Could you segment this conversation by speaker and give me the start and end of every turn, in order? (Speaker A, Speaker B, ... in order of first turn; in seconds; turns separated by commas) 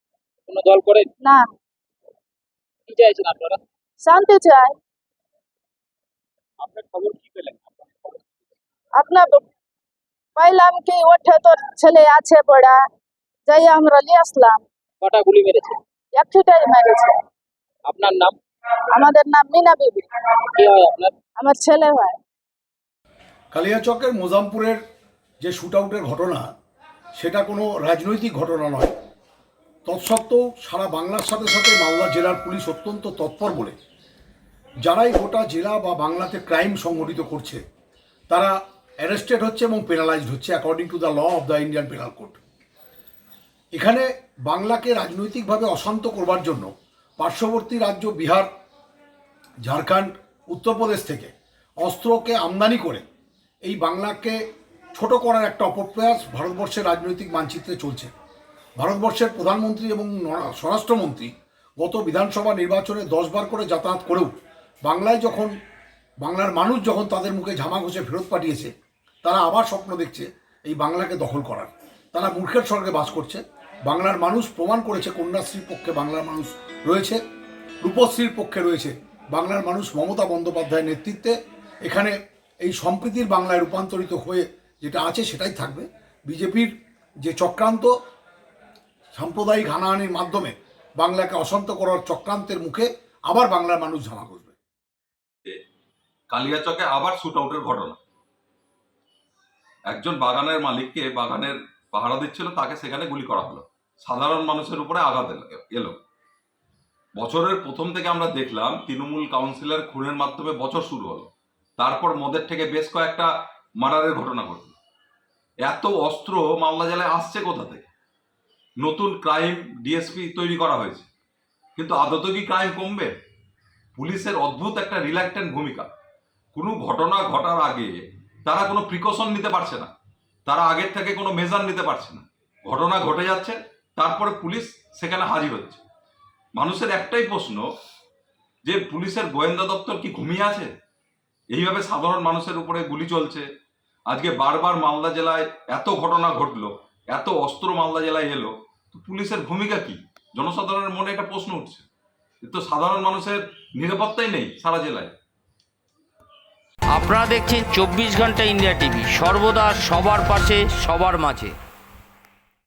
Speaker A: 0.5-1.1, Speaker B: 1.2-1.5, Speaker A: 2.9-3.6, Speaker B: 4.0-4.8, Speaker A: 6.6-7.7, Speaker B: 9.0-9.4, Speaker B: 10.4-12.8, Speaker B: 13.5-14.6, Speaker A: 15.0-15.8, Speaker B: 16.1-17.2, Speaker A: 17.9-18.4, Speaker B: 18.9-20.1, Speaker A: 20.5-21.1, Speaker B: 21.4-22.2, Speaker C: 23.5-24.8, Speaker C: 25.4-26.5, Speaker C: 27.2-28.9, Speaker C: 29.9-33.8, Speaker C: 34.9-37.6, Speaker C: 38.3-42.4, Speaker C: 43.8-48.5, Speaker C: 49.7-53.0, Speaker C: 53.6-54.4, Speaker C: 55.0-58.1, Speaker C: 58.8-64.3, Speaker C: 64.9-65.5, Speaker C: 66.2-68.7, Speaker C: 69.2-77.2, Speaker C: 77.8-86.7, Speaker C: 87.2-87.9, Speaker C: 89.2-94.6, Speaker D: 96.3-98.0, Speaker D: 99.9-106.0, Speaker D: 107.2-114.8, Speaker D: 115.7-117.8, Speaker D: 118.8-121.1, Speaker D: 121.8-123.1, Speaker D: 124.0-125.9, Speaker D: 126.5-129.9, Speaker D: 130.5-135.8, Speaker D: 136.6-137.7, Speaker D: 138.7-140.7, Speaker D: 141.5-143.5, Speaker D: 144.1-151.9, Speaker D: 152.4-155.1, Speaker E: 156.9-161.6